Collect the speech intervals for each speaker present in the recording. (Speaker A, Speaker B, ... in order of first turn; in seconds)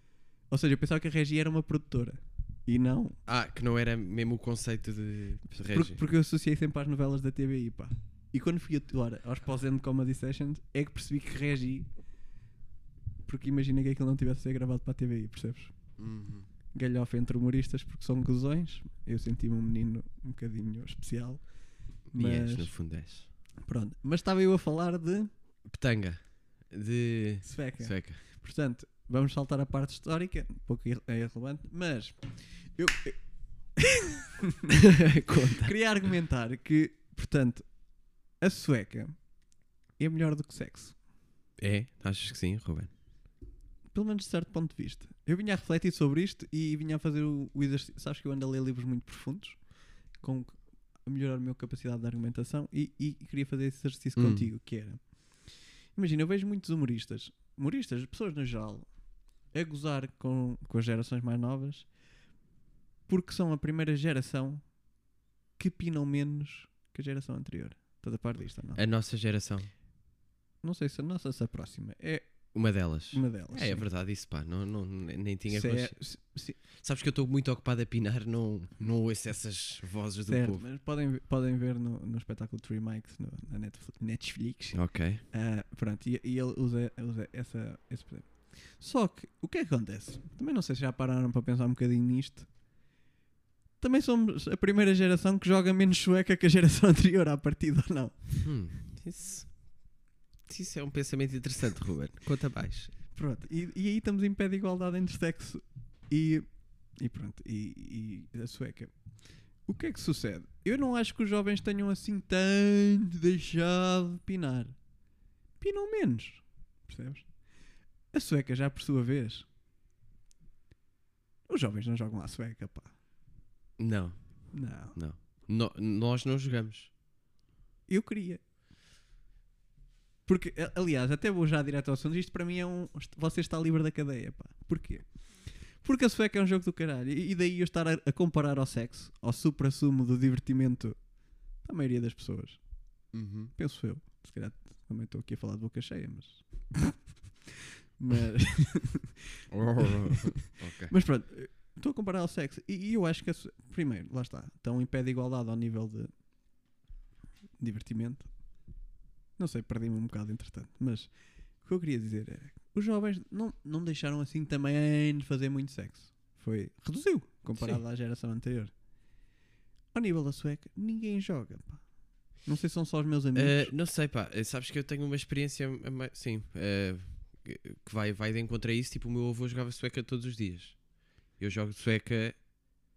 Speaker A: 0.5-3.2, 5.7-11.9, 13.3-15.8, 16.7-22.7, 23.6-25.3, 27.4-33.2, 33.8-34.7, 35.6-39.2, 40.0-41.0, 43.9-58.9, 59.5-61.9, 63.1-64.7, 65.6-68.8, 70.6-72.5, 73.1-73.8, 75.5-76.6, 80.3-92.5, 93.8-98.4, 103.1-108.9, 109.6-114.8, 115.6-117.3, 118.1-119.5, 121.5-123.0, 124.5-125.0, 127.9-128.4, 130.3-135.1, 135.8-141.1, 141.6-142.6, 143.6-147.0, 148.0-149.2, 149.8-156.1, 157.6-158.5, 159.4-168.7, 169.9-173.7
Speaker B: 3.3-6.0, 16.0-16.5, 22.1-23.3, 25.6-28.2, 34.7-35.7, 41.6-42.9, 54.2-54.5, 68.8-69.7, 72.5-76.0, 76.7-80.6, 84.7-85.2, 98.4-99.9, 100.5-102.9, 123.8-126.9, 143.1-143.5, 149.5-150.9, 173.3-182.3